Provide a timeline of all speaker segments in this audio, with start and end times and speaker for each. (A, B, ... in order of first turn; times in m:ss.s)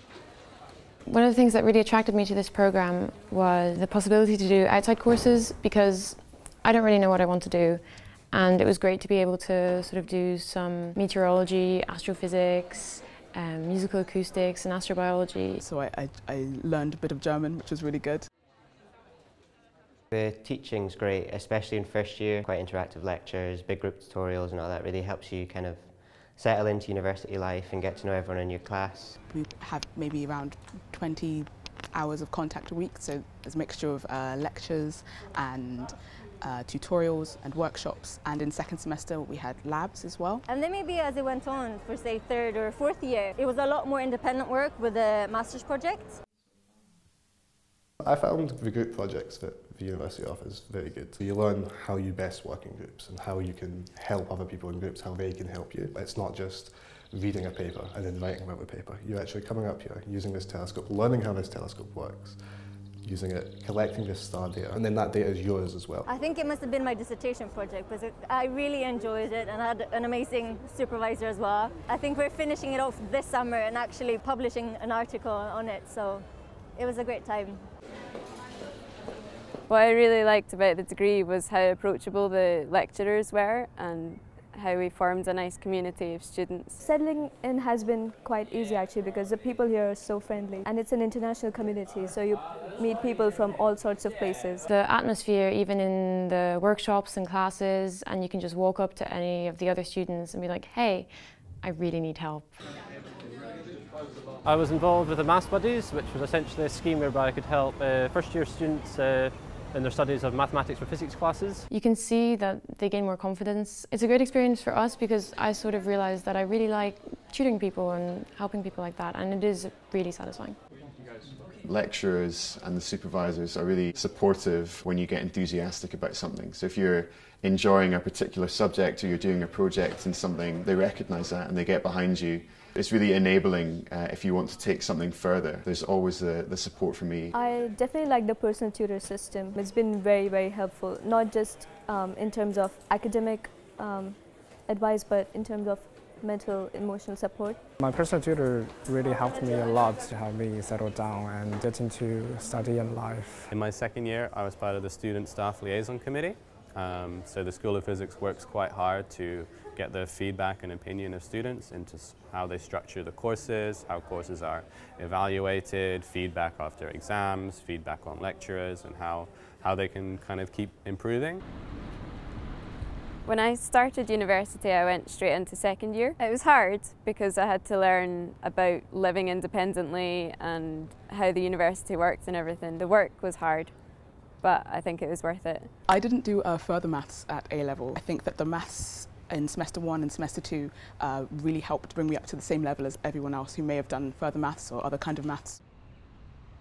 0:01.1-0:15.6 A
0:15.7-0:18.2 B
0:20.1-0:29.2 C
0:29.4-0:40.4 B
0:40.6-0:46.1 D
0:48.0-1:06.1 E
1:06.1-1:08.4 D
1:10.9-1:11.6 D
1:14.3-1:16.2 D
1:16.8-1:17.5 D
1:19.7-1:26.8 F
1:26.8-1:34.7 G
1:34.7-1:42.6 A
1:44.4-1:51.6 H
1:51.7-2:00.6 A
2:01.6-2:17.3 I
2:17.3-2:27.6 G
2:27.8-2:33.5 J
2:33.5-2:51.4 K
2:53.2-3:05.7 F
3:06.0-3:15.4 B